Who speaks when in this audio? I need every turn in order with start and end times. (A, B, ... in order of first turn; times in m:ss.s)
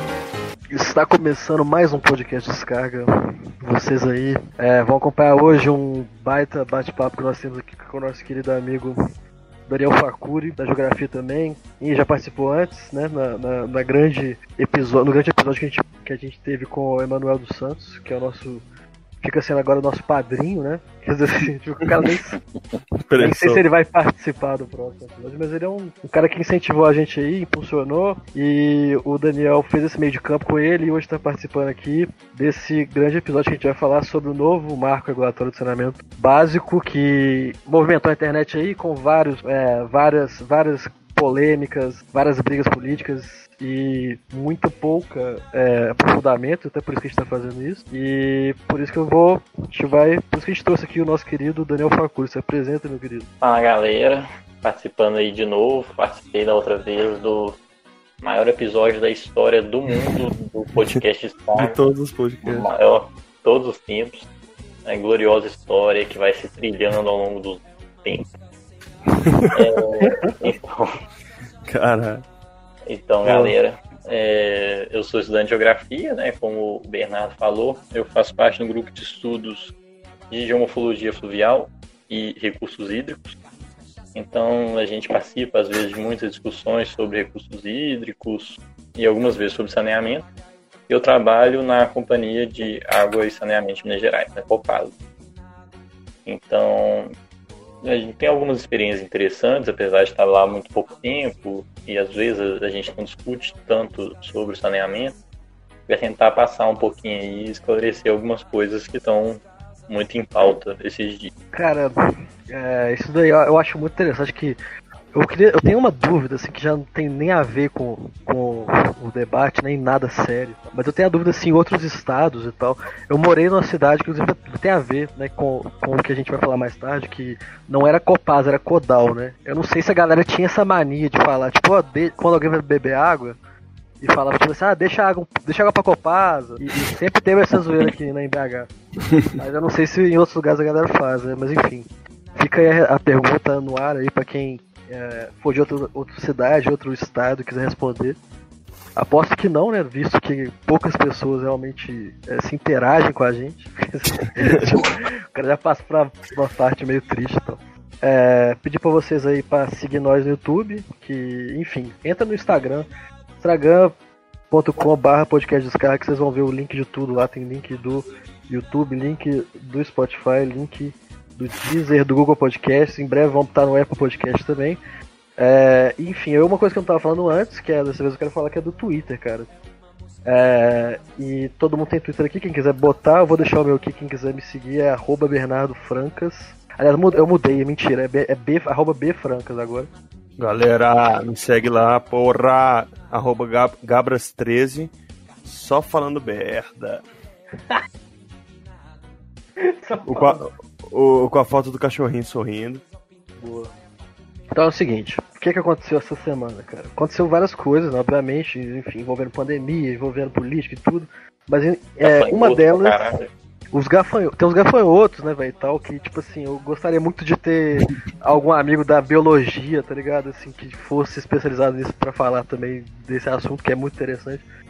0:00.7-0:03.1 A
0:03.6-0:09.0 A
0:09.7-0:18.6 A
0:19.2-0:22.4 A
0:23.1-0:23.6 B
0:23.2-0:53.3 A
0:53.4-0:57.6 C
0:58.2-1:01.8 C
1:01.6-1:02.7 B
1:02.4-1:04.2 C
1:04.8-1:08.3 C
1:09.5-1:10.9 C
1:11.6-1:12.2 B
1:12.9-1:19.7 C
1:13.2-1:13.5 B
1:20.3-1:23.4 C
1:24.1-1:30.3 C
1:30.9-1:34.9 C
1:36.2-1:37.1 C
1:37.8-1:45.2 C
1:45.9-1:51.3 C
1:51.5-1:51.9 A
1:52.5-1:54.6 A
1:55.1-2:13.4 A
2:14.0-2:18.7 A
2:19.3-2:28.2 A
2:29.0-2:42.9 A
2:43.4-2:43.9 A
2:44.5-2:54.8 A
2:55.4-2:59.5 A
3:00.2-3:09.9 A
3:10.4-3:14.9 B
3:15.4-3:17.0 B
3:19.6-3:20.4 A
3:20.0-3:22.8 B
3:23.4-3:23.7 A
3:24.5-3:33.0 A
3:32.0-3:33.3 C
3:33.7-3:44.4 A